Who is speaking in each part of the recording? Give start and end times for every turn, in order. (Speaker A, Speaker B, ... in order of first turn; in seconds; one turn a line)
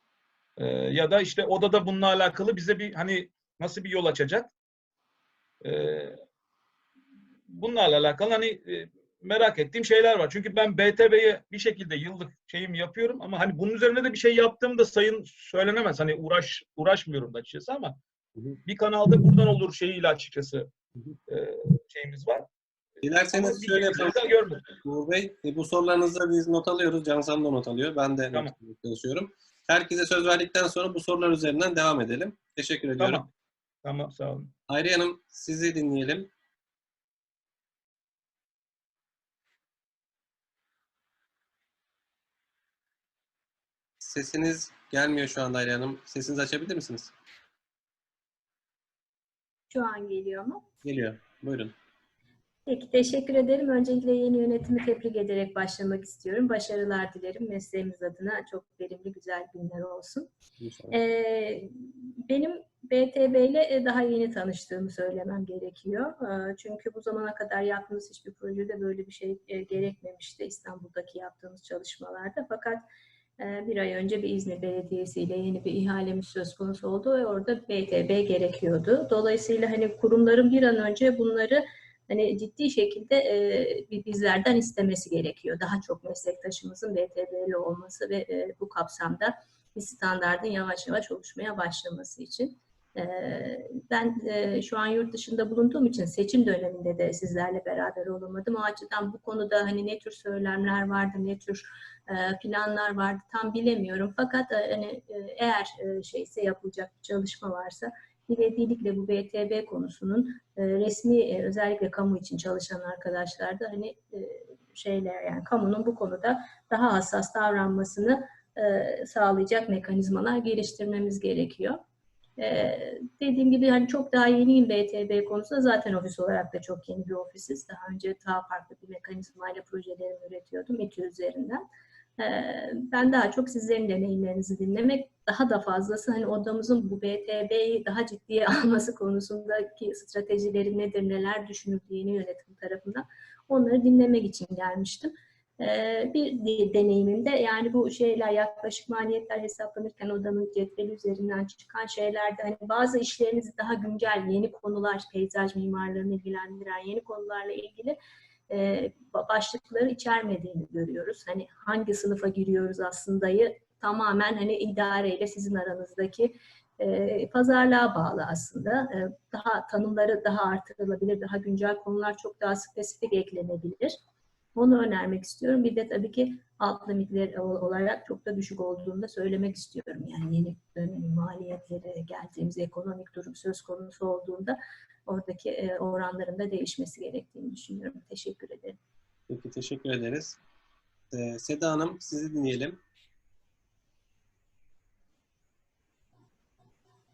Speaker A: 0.6-4.5
Speaker A: 5.6-6.2
Speaker A: 7.5-18.0
Speaker A: 18.6-20.7
Speaker A: 21.3-22.4
Speaker B: 23.0-33.2
Speaker A: 23.3-24.6
Speaker A: 33.0-33.3
Speaker A: 33.8-34.5
Speaker B: 34.7-36.3
Speaker B: 44.0-47.1
Speaker C: 49.7-50.6
Speaker B: 50.8-51.7
Speaker C: 52.7-60.3
Speaker B: 60.6-61.0
Speaker C: 60.9-72.8
Speaker C: 73.4-121.8
Speaker C: 122.4-131.6
Speaker C: 132.2-158.0
Speaker C: 158.5-174.0
Speaker C: 174.6-188.8
Speaker B: 189.3-190.4
Speaker B: 191.1-192.8